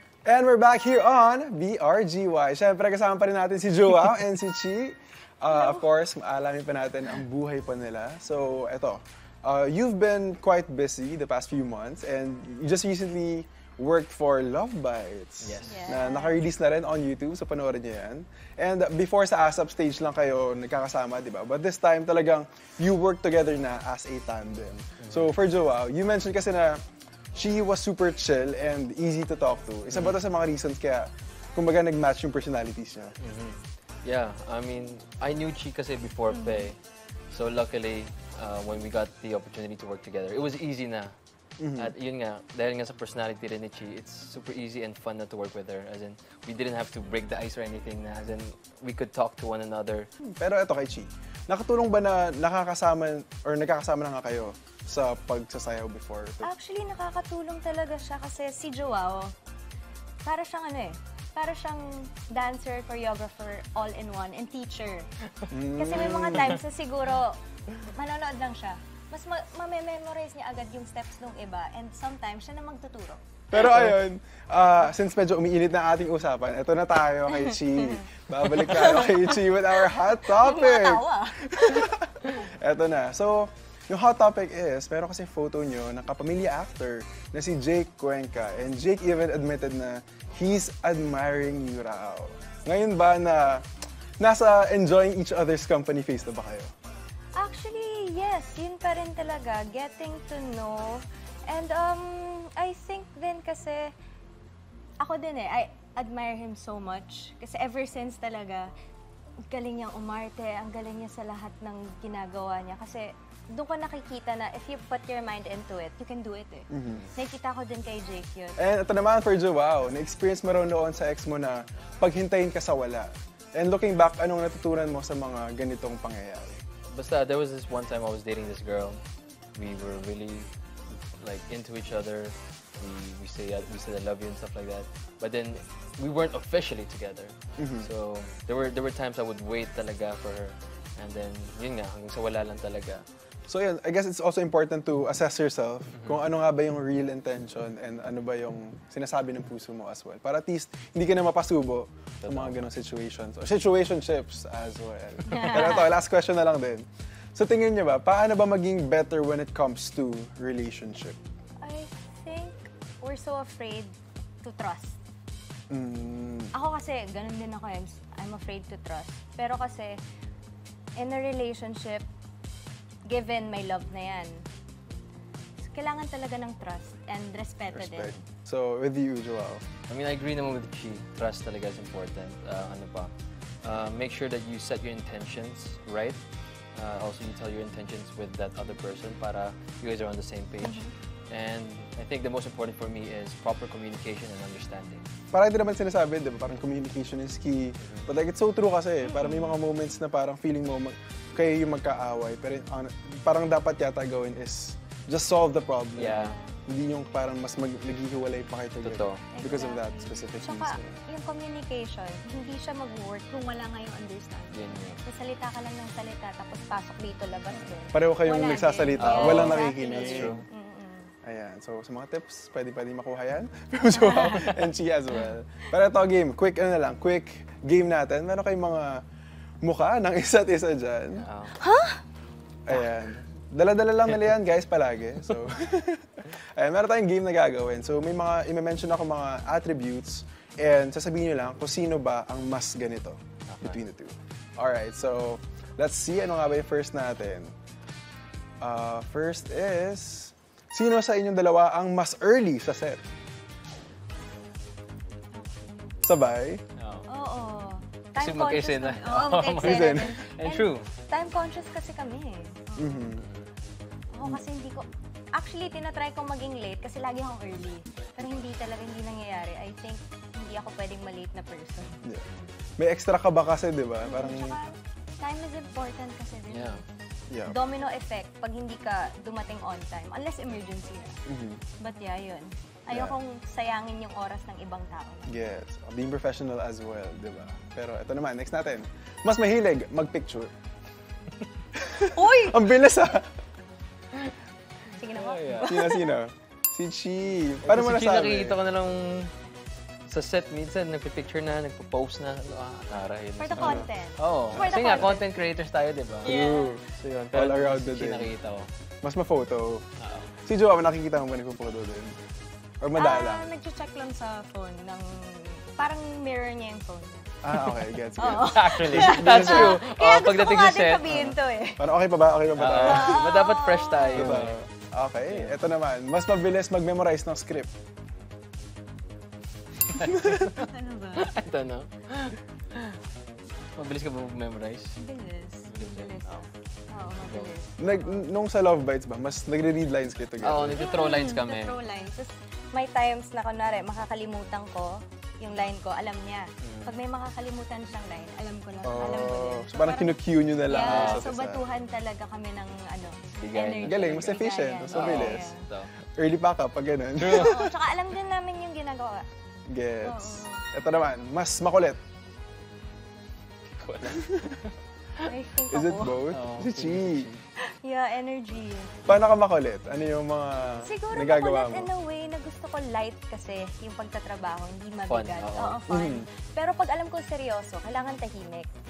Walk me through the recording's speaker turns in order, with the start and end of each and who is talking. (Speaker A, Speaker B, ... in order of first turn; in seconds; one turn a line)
Speaker A: 0.2-26.8
Speaker B: 5.5-5.8
Speaker C: 15.4-15.9
Speaker B: 15.6-16.4
Speaker C: 25.0-25.3
Speaker A: 27.3-33.2
Speaker C: 29.9-30.2
Speaker C: 33.2-36.8
Speaker B: 36.3-36.7
Speaker C: 37.3-41.1
Speaker A: 41.6-41.9
Speaker C: 41.7-50.1
Speaker A: 50.2-56.5
Speaker B: 56.4-59.3
Speaker B: 60.2-65.1
Speaker A: 65.5-66.6
Speaker B: 65.7-73.2
Speaker C: 65.9-66.5
Speaker A: 73.5-93.7
Speaker C: 73.6-73.9
Speaker B: 77.3-79.3
Speaker B: 79.9-81.9
Speaker A: 94.2-96.7
Speaker B: 97.4-103.9
Speaker B: 105.0-108.7
Speaker B: 109.5-118.6
Speaker A: 116.7-117.1
Speaker A: 118.6-126.6
Speaker C: 126.9-129.0
Speaker C: 129.6-130.5
Speaker C: 131.2-143.1
Speaker A: 137.6-137.9
Speaker A: 143.5-161.2
Speaker C: 146.0-146.2
Speaker C: 152.2-152.7
Speaker B: 155.3-155.9
Speaker C: 155.3-155.7
Speaker B: 161.6-165.0
Speaker A: 165.7-166.5
Speaker B: 166.5-170.0
Speaker B: 171.0-172.1
Speaker B: 173.1-174.5
Speaker B: 175.6-178.2
Speaker A: 177.7-179.7
Speaker C: 179.9-183.1
Speaker C: 183.6-195.1
Speaker B: 190.6-190.9
Speaker A: 195.3-211.0
Speaker C: 197.8-198.1
Speaker B: 199.1-199.6
Speaker C: 206.0-206.4
Speaker B: 206.1-206.5
Speaker C: 208.8-209.3
Speaker B: 209.3-221.1
Speaker C: 214.5-215.0
Speaker A: 217.9-220.4
Speaker C: 219.0-220.5
Speaker A: 221.2-229.0
Speaker B: 224.0-224.5
Speaker A: 229.6-231.3
Speaker C: 231.2-231.6
Speaker B: 231.6-232.0
Speaker A: 232.7-247.6
Speaker C: 243.5-243.8
Speaker A: 248.6-253.0
Speaker B: 255.3-255.9
Speaker A: 256.0-256.6
Speaker C: 256.8-257.1
Speaker B: 257.1-263.1
Speaker C: 258.2-260.9
Speaker A: 259.6-260.2
Speaker A: 262.8-263.3
Speaker C: 263.2-263.5
Speaker B: 264.1-272.0
Speaker A: 272.8-274.6
Speaker B: 274.0-276.8
Speaker C: 276.5-276.8
Speaker A: 277.3-277.6
Speaker B: 277.4-281.2
Speaker A: 281.3-281.6
Speaker B: 281.8-285.3
Speaker A: 282.9-283.2
Speaker A: 285.3-290.5
Speaker A: 291.8-293.3
Speaker B: 292.1-292.6
Speaker B: 294.9-296.2
Speaker C: 295.1-295.7
Speaker A: 295.6-298.6
Speaker C: 297.6-299.3
Speaker C: 300.1-306.4
Speaker B: 303.4-305.3
Speaker A: 303.5-303.9
Speaker B: 306.2-306.8
Speaker A: 306.2-308.3
Speaker C: 306.9-308.7
Speaker A: 309.0-309.9
Speaker C: 310.0-310.3
Speaker A: 310.4-312.2
Speaker A: 312.8-313.4
Speaker B: 313.0-321.9
Speaker A: 317.4-319.8
Speaker C: 318.3-321.2
Speaker A: 321.1-323.3
Speaker C: 322.6-324.6
Speaker B: 322.8-324.4
Speaker A: 324.1-327.7
Speaker C: 325.3-325.6
Speaker C: 329.9-330.6
Speaker B: 330.5-331.3
Speaker C: 331.2-333.0
Speaker C: 333.8-335.0
Speaker B: 335.0-338.2
Speaker C: 335.7-336.4
Speaker C: 337.2-337.5
Speaker A: 337.8-340.9
Speaker C: 340.4-341.8
Speaker B: 340.8-355.6
Speaker C: 346.6-347.0
Speaker A: 348.8-351.6
Speaker C: 350.7-351.2
Speaker C: 353.3-355.9
Speaker A: 353.8-355.5
Speaker A: 356.1-357.6
Speaker C: 357.2-357.7
Speaker B: 357.3-359.3
Speaker A: 359.7-362.0
Speaker B: 360.0-360.7
Speaker C: 363.7-364.7
Speaker A: 364.1-364.4
Speaker B: 365.3-366.2
Speaker A: 365.7-367.3
Speaker C: 366.3-367.4
Speaker B: 367.6-369.0
Speaker A: 369.1-371.9
Speaker B: 370.8-378.7
Speaker C: 375.1-375.9
Speaker A: 375.9-376.3